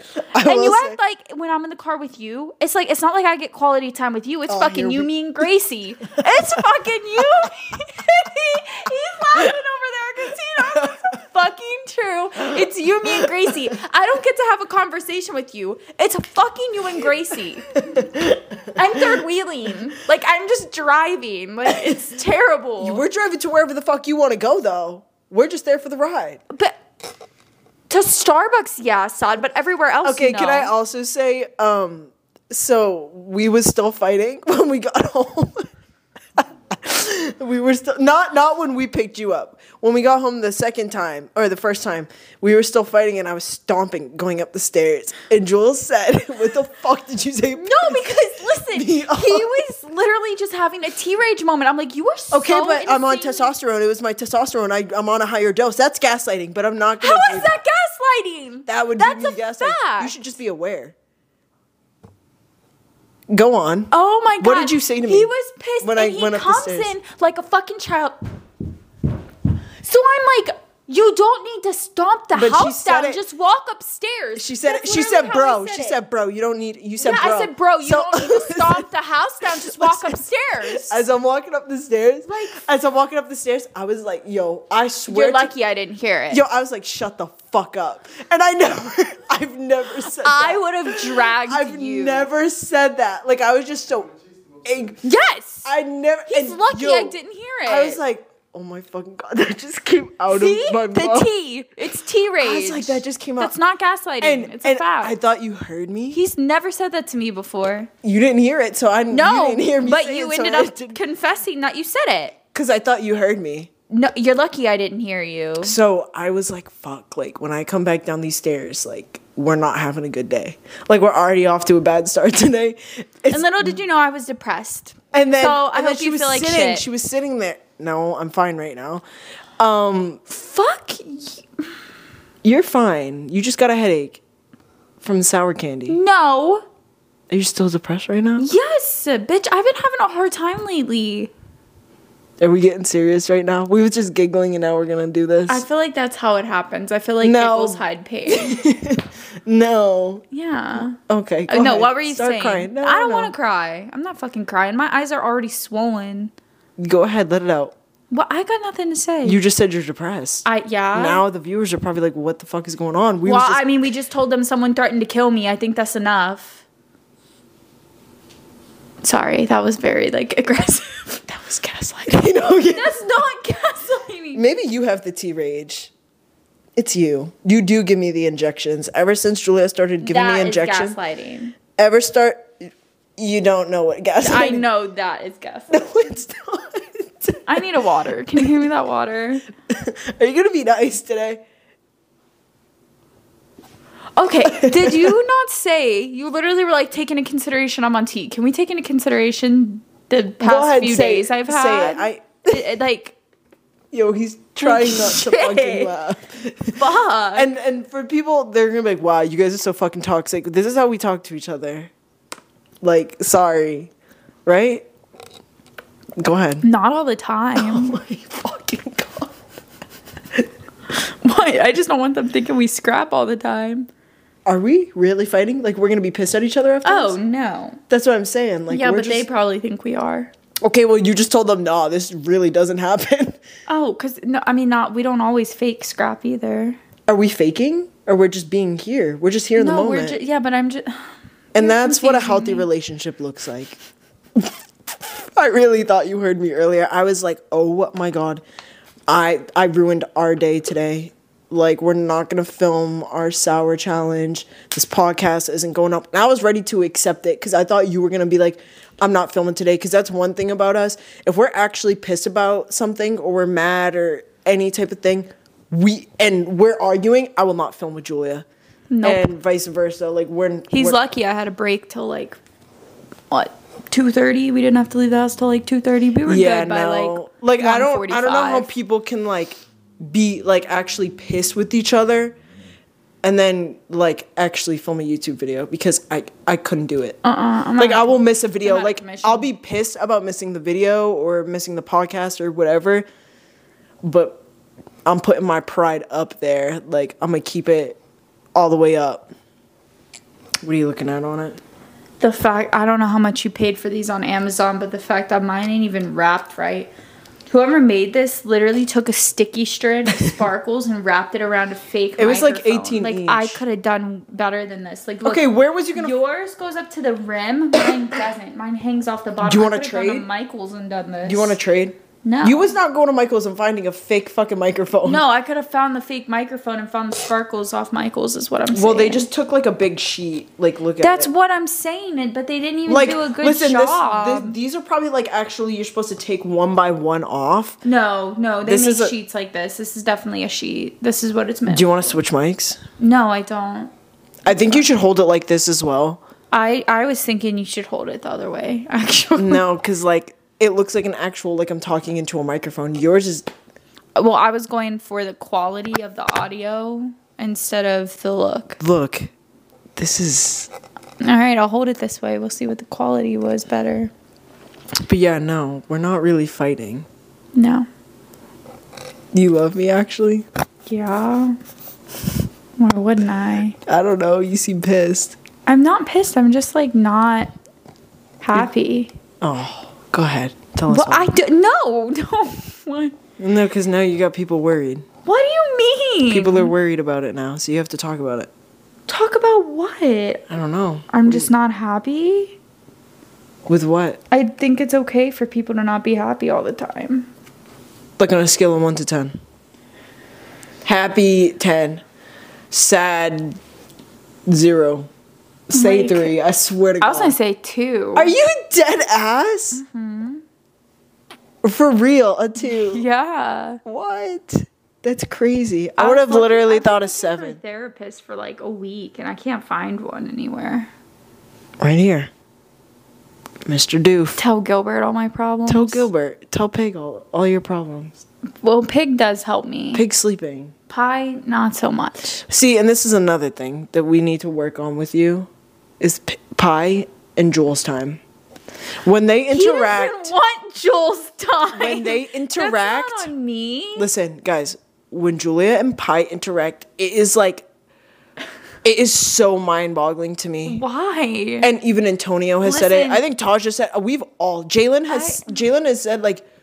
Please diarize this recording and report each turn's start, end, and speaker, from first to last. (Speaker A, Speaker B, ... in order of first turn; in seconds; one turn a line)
Speaker A: 0.3-1.0
Speaker B: 0.3-18.1
Speaker A: 4.5-5.5
Speaker A: 6.2-6.6
Speaker A: 17.9-18.4
Speaker B: 18.7-23.0
Speaker A: 22.8-26.4
Speaker B: 26.5-26.8
Speaker B: 27.9-30.7
Speaker A: 30.0-35.7
Speaker A: 36.4-48.2
Speaker B: 47.5-53.5
Speaker A: 48.7-49.6
Speaker A: 52.3-57.5
Speaker B: 57.0-60.1
Speaker A: 58.6-60.9
Speaker A: 63.3-66.9
Speaker B: 63.9-68.2
Speaker B: 69.8-76.0
Speaker A: 72.3-73.2
Speaker A: 74.3-78.9
Speaker B: 77.0-81.0
Speaker A: 79.4-85.5
Speaker B: 82.3-82.6
Speaker B: 85.1-86.4
Speaker A: 86.3-95.0
Speaker B: 90.1-92.3
Speaker B: 95.0-95.7
Speaker A: 95.6-101.3
Speaker B: 96.3-98.0
Speaker B: 100.3-105.1
Speaker A: 102.4-103.5
Speaker A: 104.2-106.2
Speaker B: 106.1-107.9
Speaker A: 108.0-111.0
Speaker B: 109.1-112.3
Speaker A: 112.5-113.7
Speaker B: 113.9-115.8
Speaker A: 115.6-123.8
Speaker B: 123.3-126.8
Speaker A: 125.1-129.0
Speaker A: 129.6-130.2
Speaker B: 130.3-131.4
Speaker A: 132.4-134.2
Speaker A: 135.0-136.0
Speaker B: 135.9-136.6
Speaker A: 137.3-138.5
Speaker B: 138.4-141.3
Speaker A: 142.4-145.6
Speaker B: 145.5-148.6
Speaker A: 147.2-153.3
Speaker B: 150.3-156.3
Speaker A: 156.8-157.7
Speaker B: 158.1-159.4
Speaker A: 159.2-163.6
Speaker B: 160.4-161.2
Speaker B: 163.2-166.6
Speaker B: 169.0-174.4
Speaker A: 172.1-173.0
Speaker A: 174.3-175.9
Speaker A: 176.8-181.0
Speaker B: 180.0-181.5
Speaker A: 181.8-184.7
Speaker B: 184.2-185.8
Speaker A: 185.7-187.7
Speaker B: 187.4-189.4
Speaker A: 189.7-191.4
Speaker B: 194.2-203.2
Speaker A: 194.4-195.2
Speaker A: 200.4-202.6
Speaker A: 203.9-206.8
Speaker B: 204.6-205.9
Speaker B: 206.7-207.5
Speaker A: 207.3-211.9
Speaker A: 212.8-213.9
Speaker A: 214.4-214.8
Speaker A: 216.2-216.7
Speaker B: 216.6-218.0
Speaker A: 217.6-219.3
Speaker B: 220.9-223.9
Speaker A: 224.4-227.2
Speaker B: 226.8-227.8
Speaker A: 227.9-229.2
Speaker B: 228.7-230.3
Speaker A: 230.6-233.4
Speaker B: 233.7-236.8
Speaker A: 237.1-240.2
Speaker B: 239.6-242.7
Speaker A: 241.5-243.8
Speaker A: 244.3-248.4
Speaker A: 249.1-268.4
Speaker B: 268.9-269.2
Speaker A: 269.0-271.0
Speaker B: 270.7-272.4
Speaker B: 273.3-278.7
Speaker A: 276.2-282.4
Speaker A: 283.2-287.2
Speaker B: 287.2-289.5
Speaker A: 287.8-293.1
Speaker A: 294.0-294.4
Speaker A: 295.0-298.0
Speaker A: 298.5-299.3
Speaker A: 300.6-301.6
Speaker B: 302.2-306.9
Speaker B: 307.5-321.6
Speaker A: 312.2-313.6
Speaker A: 315.2-316.1
Speaker A: 319.4-320.3
Speaker A: 321.2-325.2
Speaker B: 322.2-322.7
Speaker B: 325.0-329.3
Speaker A: 328.7-331.3
Speaker B: 331.0-334.6
Speaker A: 332.9-337.8
Speaker B: 337.8-342.2
Speaker A: 338.6-339.1
Speaker A: 341.7-342.8
Speaker B: 343.0-343.9
Speaker A: 344.4-346.2
Speaker B: 344.5-344.9
Speaker B: 346.5-349.6
Speaker A: 349.4-353.5
Speaker B: 354.1-358.8
Speaker A: 358.8-359.3
Speaker A: 359.9-360.7
Speaker B: 361.2-364.1
Speaker A: 365.0-367.1
Speaker B: 367.5-367.9
Speaker A: 369.3-370.4
Speaker B: 370.9-371.6
Speaker B: 372.8-373.8
Speaker A: 373.9-375.4
Speaker B: 375.6-377.5
Speaker B: 378.4-379.1
Speaker A: 379.4-381.3
Speaker B: 380.9-383.1
Speaker A: 383.4-385.1
Speaker B: 385.2-386.7
Speaker A: 386.3-388.5
Speaker B: 389.1-390.4
Speaker A: 390.5-391.5
Speaker B: 391.1-392.6
Speaker A: 393.7-394.2
Speaker B: 394.3-397.3
Speaker A: 398.2-399.4
Speaker A: 400.8-402.0
Speaker A: 402.7-403.6
Speaker A: 404.4-405.1
Speaker A: 405.7-407.4
Speaker B: 405.7-406.3
Speaker B: 407.0-408.3
Speaker A: 408.1-409.8
Speaker B: 409.7-410.4
Speaker A: 411.6-413.0
Speaker B: 412.6-413.8
Speaker A: 413.8-417.6
Speaker B: 416.0-420.9
Speaker A: 421.8-422.3
Speaker A: 423.6-424.4
Speaker B: 424.4-426.1
Speaker A: 425.7-428.1
Speaker B: 428.6-430.0
Speaker A: 429.9-430.7
Speaker B: 430.9-432.4
Speaker A: 432.4-435.5
Speaker A: 436.0-438.2
Speaker A: 439.0-440.3
Speaker B: 439.5-444.1
Speaker A: 441.7-443.3
Speaker A: 443.9-447.6
Speaker A: 448.8-450.8
Speaker B: 450.7-451.7
Speaker A: 451.6-456.4
Speaker B: 452.6-453.2
Speaker B: 455.1-455.5